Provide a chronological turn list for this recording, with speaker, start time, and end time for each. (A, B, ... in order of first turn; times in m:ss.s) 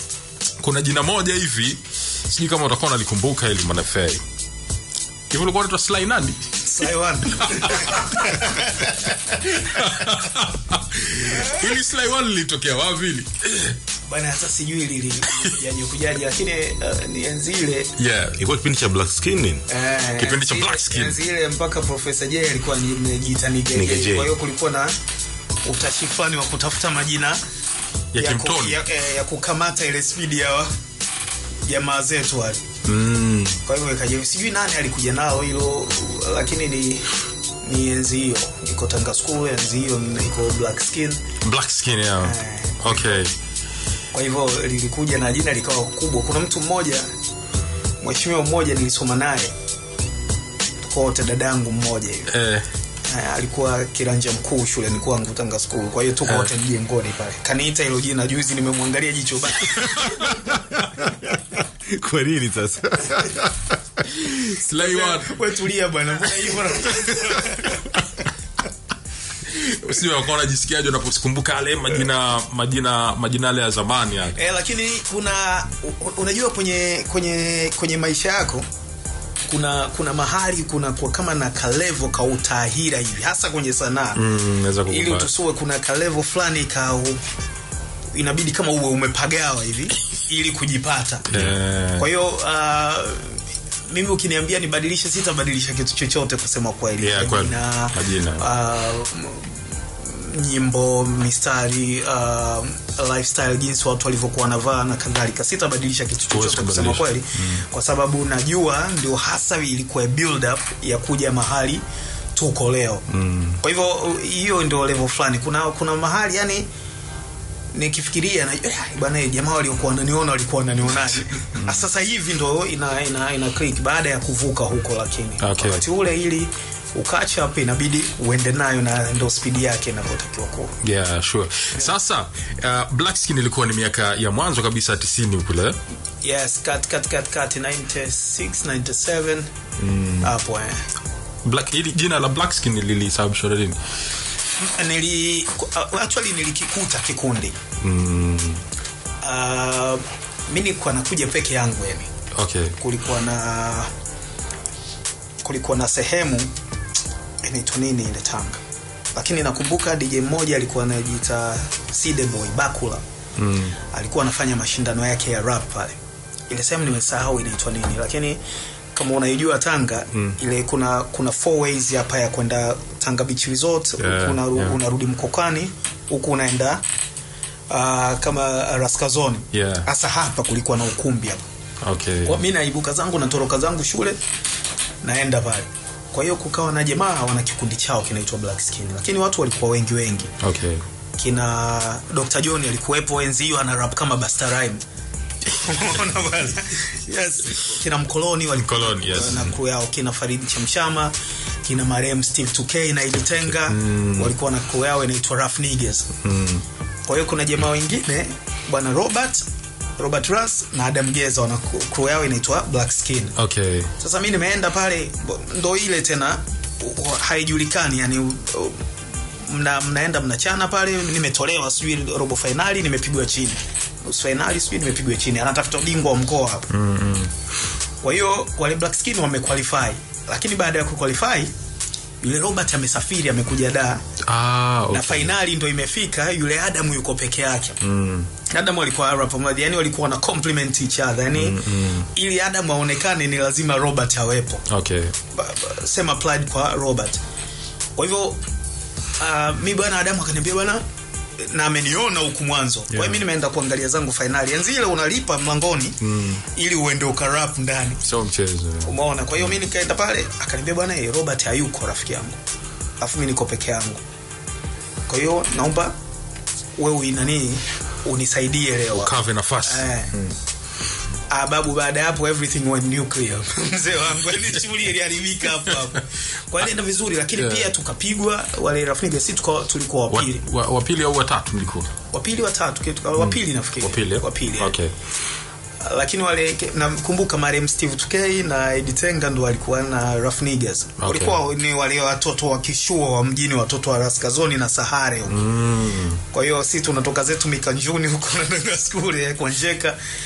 0:00.6-0:04.2 A
0:05.3-0:06.5 A
0:06.6-0:09.2 B
0:07.4-0:08.5 A
0:09.3-0:13.8 A
0:14.1-0:17.9 B
0:18.0-0:18.4 A
0:18.4-0:19.6 C
0:19.7-0:25.0 B
0:20.2-0:21.2 A
0:23.8-0:24.3 C
0:25.6-0:27.4 B
0:28.1-0:28.8 A
0:28.2-0:30.7 B
0:31.6-0:32.6 B
0:32.8-0:33.6 A
0:33.6-0:41.2 B
0:41.4-0:43.3 A
0:42.2-0:43.2 B
0:44.1-0:47.1 B
0:48.0-0:49.5 B
0:50.8-0:52.3 B
0:52.3-0:52.7 A
0:53.0-1:00.4 B
0:59.7-1:00.4 A
1:00.8-1:04.3 C
1:04.2-1:05.3 A
1:04.7-1:07.9 B
1:06.7-1:07.6 C
1:09.5-1:14.4 A
1:14.4-1:18.7 B
1:19.5-1:24.2 B
1:24.1-1:25.3 A
1:24.8-1:27.2 B
1:28.1-1:51.8 B
1:31.3-1:32.1 A
1:37.0-1:38.4 A
1:46.3-1:47.6 A
1:52.3-1:53.1 B
1:53.1-1:53.6 A
1:53.6-1:56.7 B
1:57.7-2:10.8 B
2:05.4-2:05.8 A
2:10.8-2:15.8 A
2:16.2-2:19.5 B
2:19.8-2:20.3 A
2:20.2-2:20.9 B
2:21.4-2:23.8 A
2:24.6-2:27.6 B
2:27.8-2:28.6 A
2:29.2-2:32.1 B
2:32.3-2:32.8 A
2:32.8-2:33.9 B
2:35.4-2:36.5 B
2:37.4-2:38.6 B
2:39.1-2:43.0 B
2:43.4-2:43.8 A
2:43.8-2:48.4 B
2:48.9-2:56.8 B
2:50.1-2:50.4 A
2:54.0-2:54.8 A
2:57.7-3:01.4 B
2:59.5-2:59.9 A
3:01.8-3:02.4 A
3:02.2-3:04.2 B
3:05.0-3:10.4 B
3:10.4-3:10.8 A
3:11.2-3:14.8 B
3:15.5-3:26.1 B
3:18.6-3:19.5 A
3:23.6-3:24.3 A
3:26.2-3:26.6 A
3:27.0-3:29.5 B
3:30.0-3:33.3 B
3:33.4-3:33.9 A
3:34.0-3:38.8 B
3:39.4-3:46.7 B
3:46.7-3:47.3 A
3:48.0-3:51.5 B
3:52.2-3:54.0 B
3:54.2-3:55.3 A
3:54.9-3:57.8 B
3:57.8-3:58.3 A
3:58.4-4:04.6 B
4:01.3-4:02.1 A
4:04.7-4:05.1 A
4:05.3-4:07.2 B
4:08.0-4:08.4 B
4:09.2-4:10.8 B
4:11.4-4:18.0 B
4:12.9-4:13.2 A
4:16.0-4:16.4 A
4:18.0-4:18.9 A
4:18.8-4:22.4 B
4:23.0-4:24.0 B
4:25.1-4:26.0 B
4:26.8-4:30.1 B
4:28.9-4:30.3 A
4:31.3-4:40.4 B
4:37.4-4:37.6 A
4:40.1-4:41.9 A
4:42.1-4:44.7 B
4:43.2-4:44.9 A
4:45.8-4:55.4 B
4:51.0-4:51.4 A
4:55.3-4:56.2 A
4:56.3-5:00.0 B